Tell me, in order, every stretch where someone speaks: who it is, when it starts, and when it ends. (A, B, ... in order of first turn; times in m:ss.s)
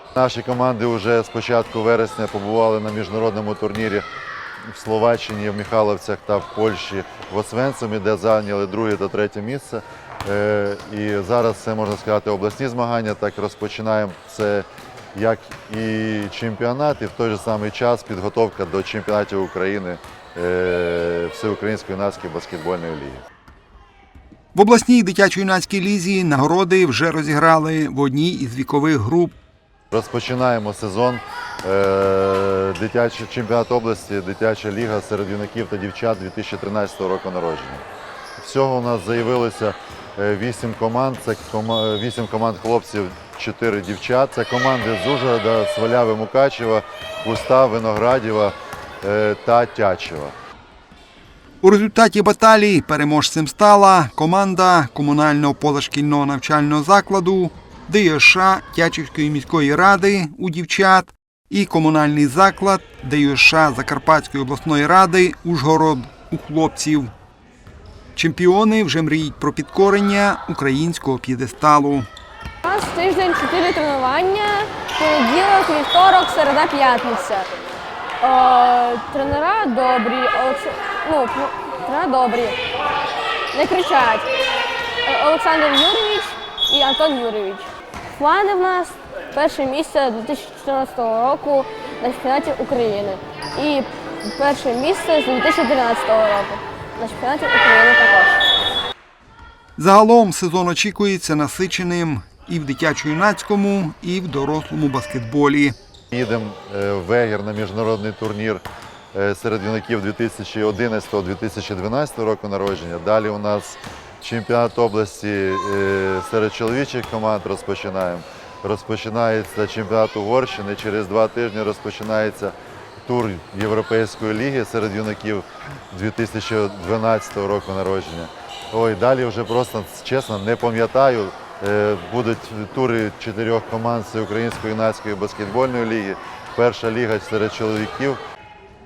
0:00.2-0:04.0 A
0:04.7-0:23.2 A
0:24.5-0:29.4 B
0:29.9-0:37.8 A
0:38.4-0:50.4 A
0:51.6-1:07.1 B
1:08.2-1:12.1 B
1:12.6-1:17.5 C
1:18.2-1:22.6 C
1:23.5-1:24.3 C
1:25.0-1:38.5 C
1:39.8-1:45.8 B
1:46.1-2:18.2 A